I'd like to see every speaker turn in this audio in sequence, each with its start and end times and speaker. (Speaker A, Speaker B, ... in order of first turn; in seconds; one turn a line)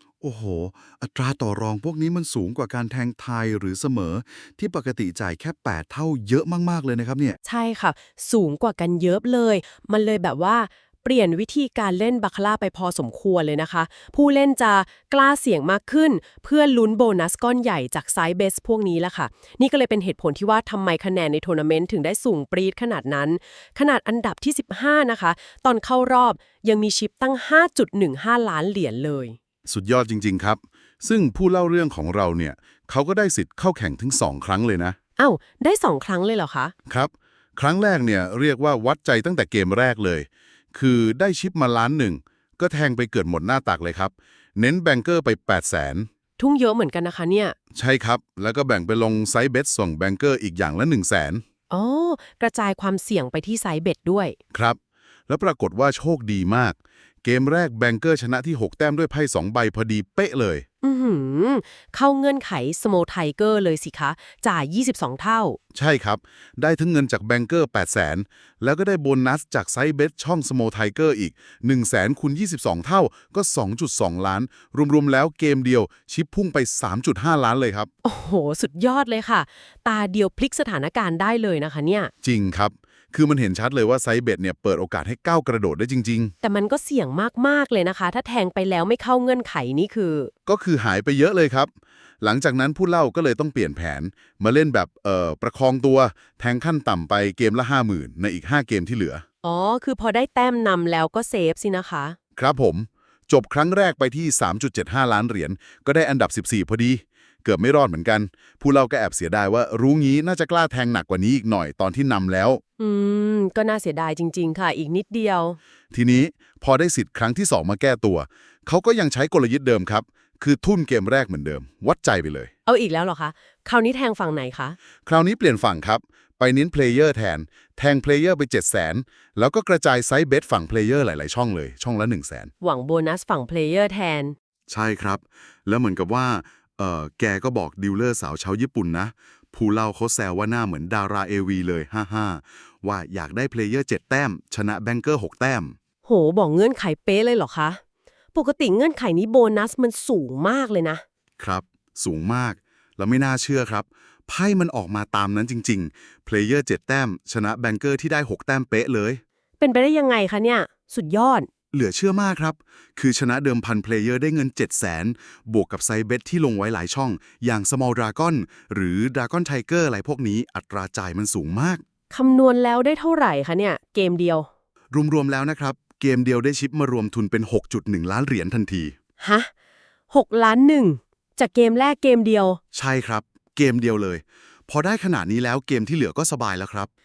Speaker A: 0.2-7.4
Speaker B: 7.4-29.4
Speaker A: 29.7-35.0
Speaker B: 35.2-36.7
Speaker A: 36.9-46.1
Speaker B: 46.4-47.5
Speaker A: 47.7-51.4
Speaker B: 51.7-54.4
Speaker A: 54.5-54.8
Speaker A: 55.3-60.6
Speaker B: 60.8-65.6
Speaker A: 65.7-77.9
Speaker B: 78.0-82.1
Speaker A: 82.2-86.3
Speaker B: 86.4-90.3
Speaker A: 90.5-91.7
Speaker A: 92.2-99.2
Speaker B: 99.4-102.2
Speaker A: 102.3-112.6
Speaker B: 112.8-115.6
Speaker A: 115.9-122.5
Speaker B: 122.7-124.8
Speaker A: 125.0-132.5
Speaker B: 132.6-134.3
Speaker A: 134.7-145.8
Speaker B: 146.0-147.8
Speaker B: 148.3-151.0
Speaker A: 151.4-159.2
Speaker B: 159.6-161.5
Speaker A: 161.7-171.8
Speaker B: 172.1-174.5
Speaker A: 174.9-178.9
Speaker B: 179.2-179.5
Speaker B: 180.1-182.6
Speaker A: 182.7-186.9